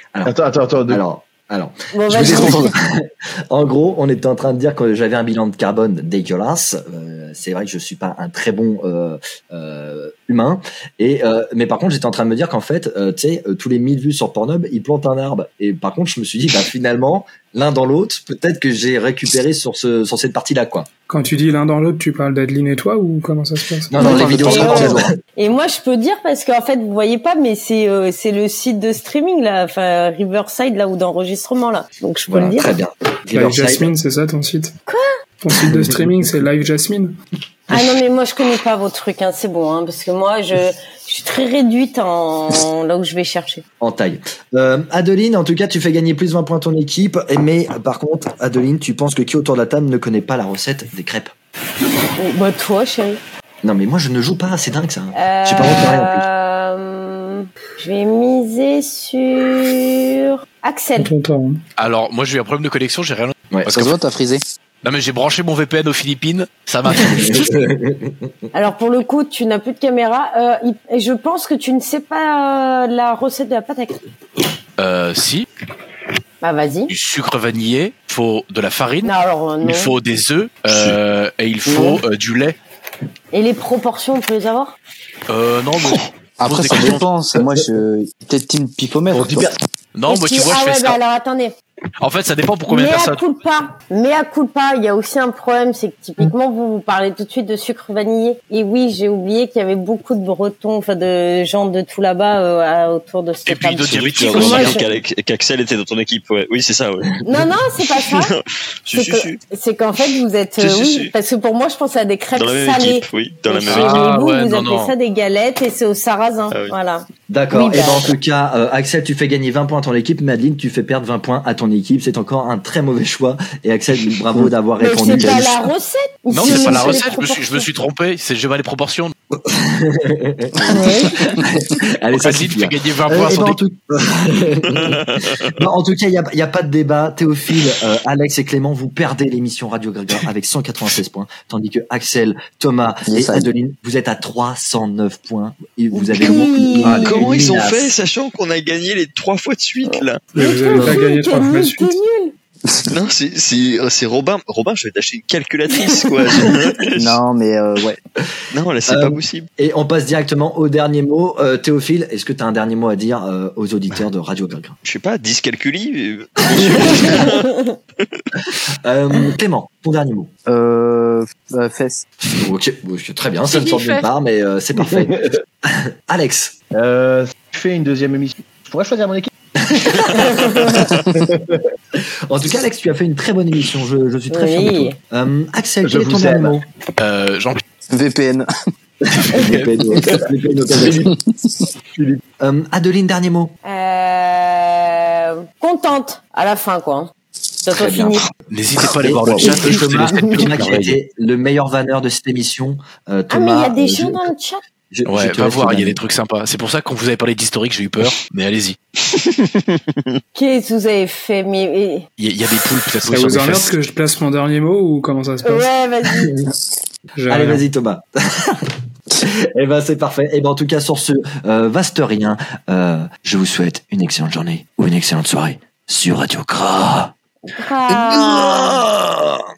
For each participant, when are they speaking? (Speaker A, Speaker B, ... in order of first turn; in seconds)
Speaker A: 0.1-20.9, 23.9-25.1, 32.3-33.9, 35.5-36.1, 43.8-51.3, 53.6-56.2, 63.5-63.8, 67.0-68.3, 117.3-125.7, 129.3-147.9, 158.9-164.8, 166.5-167.3, 168.8-170.3, 172.4-176.5, 179.6-180.8, 182.3-186.7, 189.3-191.1, 192.4-193.5, 197.7-198.2, 198.8-204.3, 204.9-206.0, 216.1-216.5, 217.3-218.6, 219.2-227.1, 227.9-229.4
Speaker B: 0.2-1.0, 89.1-89.5, 174.8-175.3, 176.7-179.3, 181.1-181.6, 185.8-186.6, 191.9-192.2
Speaker C: 1.9-2.7, 24.0-32.7, 37.7-43.6, 52.2-53.2, 55.1-61.1, 68.5-74.0, 76.4-76.9, 79.0-79.9, 81.6-82.0, 83.3-84.8, 90.1-91.5, 92.7-104.8, 107.2-108.3, 108.9-118.1, 124.8-127.7, 130.7-131.1, 145.9-147.2, 149.9-152.3, 155.7-156.0, 180.1-180.8, 184.3-184.9, 193.7-197.1, 197.6-198.2, 203.3-204.6, 210.3-212.1, 215.4-216.3, 227.6-228.8
Speaker D: 2.1-2.7, 24.0-25.1, 63.7-64.4, 86.4-89.5, 125.0-125.5, 143.1-143.5, 156.9-157.9, 170.5-172.1, 187.9-188.5, 190.8-191.2
Speaker E: 21.1-24.0, 33.3-34.7, 35.4-37.1, 61.0-61.6, 150.3-151.9, 213.0-215.7, 217.1-217.6
Speaker F: 61.8-63.9, 64.8-67.7, 74.8-75.5, 76.9-82.6, 85.3-87.1, 89.9-91.0, 92.0-93.2, 103.5-104.8, 113.7-114.9, 126.3-129.1, 132.1-133.6, 173.5-174.1, 187.0-187.6, 189.2-189.8, 198.5-201.0, 205.1-208.8, 212.2-213.8
Speaker G: 80.7-81.0, 103.9-109.4, 110.6-111.1, 112.3-114.1, 116.5-116.8, 134.7-135.5, 147.0-151.0, 152.9-157.2, 158.5-159.5, 164.8-167.6, 209.1-210.2